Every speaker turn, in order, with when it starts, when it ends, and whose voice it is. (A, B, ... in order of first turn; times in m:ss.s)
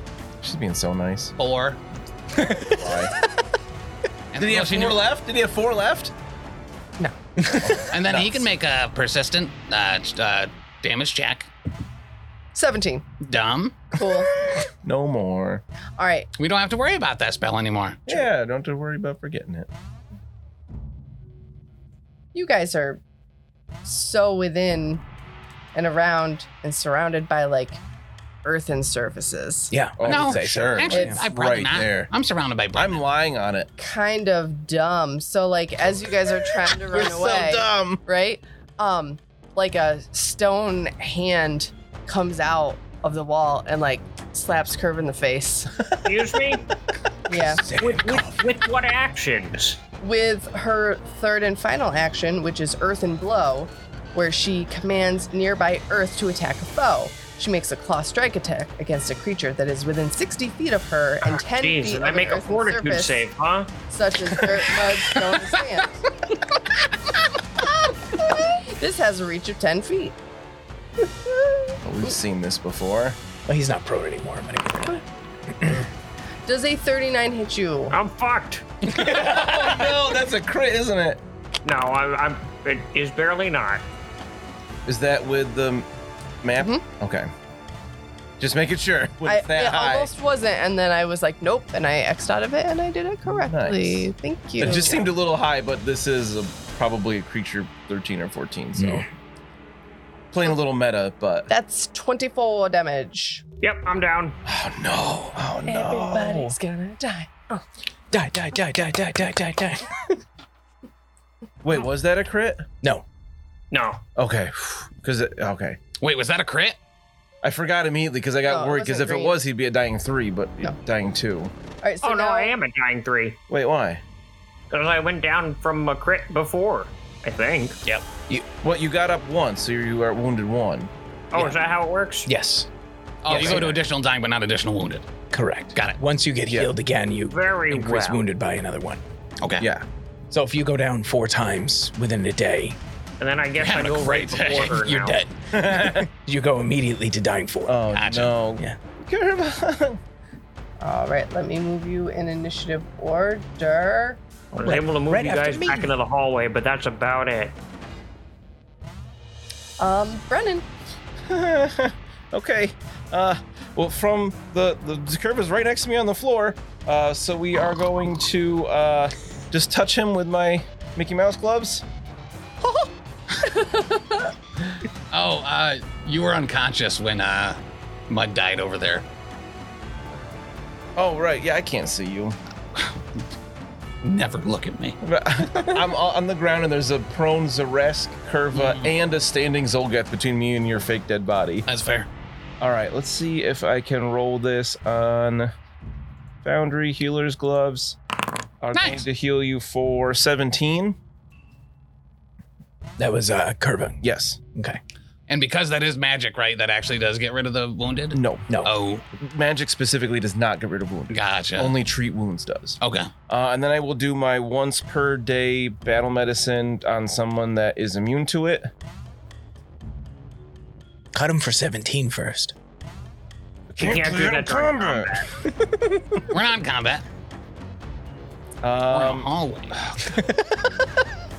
0:00.4-0:01.3 A
0:01.4-0:01.8 B
0:02.4-0:02.9 C
0:02.6-0:03.2 A
0:04.3-0:05.0 B
0:04.4-0:06.1 A
0:07.4-0:07.7 C
0:07.6-0:08.5 A
0:07.9-0:11.5 B
0:12.6-0:13.0 D
0:13.2-0:13.8 B
0:13.9-0:14.4 D
0:14.8-0:15.6 A
0:16.0-0:16.3 D
0:16.4-0:18.3 B
0:18.1-0:19.7 A
0:22.3-0:23.0 D
0:23.8-0:25.0 D
0:25.7-0:27.8 D
0:28.4-0:29.7 D
0:29.7-0:31.2 C
0:30.0-0:32.1 A
0:30.1-0:33.0 B
0:30.9-0:31.2 D
0:32.8-0:33.7 A
0:33.8-0:45.7 D
0:36.9-0:38.0 A
0:46.0-0:46.6 E
0:47.3-0:47.6 D
0:47.3-0:48.4 C
0:47.8-0:49.8 E
0:50.0-1:03.2 D
1:01.4-1:03.7 E
1:03.9-1:06.0 D
1:08.2-1:10.2 D
1:11.8-1:13.2 A
1:13.5-1:15.9 C
1:16.5-1:18.0 D
1:17.9-1:18.7 E
1:18.8-1:21.2 A
1:19.0-1:19.4 B
1:21.6-1:23.8 E
1:24.9-1:25.9 A
1:26.4-1:27.3 A
1:26.6-1:26.8 D
1:28.4-1:30.1 A
1:29.2-1:35.1 D
1:33.3-1:39.1 A
1:38.8-1:39.1 C
1:40.3-1:41.5 A
1:41.5-1:43.4 D
1:43.6-1:44.4 E
1:44.4-1:46.6 A
1:45.6-1:47.6 D
1:48.1-1:49.9 C
1:51.6-1:52.7 A
1:53.7-1:54.0 E
1:54.2-1:55.8 A
1:56.0-1:56.8 B
1:57.4-2:01.5 A
1:58.4-1:59.4 D
2:01.8-2:02.6 D
2:02.0-2:03.4 E
2:03.5-2:04.0 A
2:04.7-2:07.8 E
2:08.6-2:10.9 A
2:11.3-2:12.3 E
2:12.3-2:12.7 C
2:13.2-2:15.1 B
2:13.3-2:13.8 C
2:13.3-2:13.7 A
2:15.3-2:19.0 C
2:16.5-2:16.7 A
2:17.3-2:18.2 E
2:19.4-2:19.7 B
2:19.6-2:19.8 A
2:20.3-2:22.8 C
2:23.2-2:25.2 E
2:23.6-2:24.8 B
2:24.7-2:27.8 C
2:25.5-2:26.1 A
2:27.7-2:30.0 A
2:27.9-2:28.4 B
2:30.8-2:34.2 D
2:34.5-2:37.6 E
2:34.6-2:35.9 C
2:39.8-2:40.6 D
2:41.3-2:51.8 A
2:53.7-2:54.0 D
2:55.1-2:59.0 B
3:01.0-3:02.4 A
3:04.0-3:05.0 B
3:05.0-3:11.7 A
3:08.5-3:08.9 B
3:11.7-3:12.1 B
3:12.6-3:15.5 A
3:16.4-3:18.0 A
3:18.6-3:21.0 A
3:18.7-3:19.0 B
3:23.0-3:24.0 C
3:24.0-3:24.4 A
3:24.6-3:24.8 C
3:25.3-3:29.0 B
3:28.1-3:28.4 A
3:29.1-3:32.8 A
3:31.1-3:31.7 B
3:32.8-3:33.1 B
3:33.3-3:38.7 A
3:41.1-3:42.6 C
3:43.7-3:45.2 A
3:43.8-3:45.3 E
3:45.6-3:46.0 C
3:46.3-3:47.0 B
3:48.6-3:49.3 A
3:48.9-3:49.8 B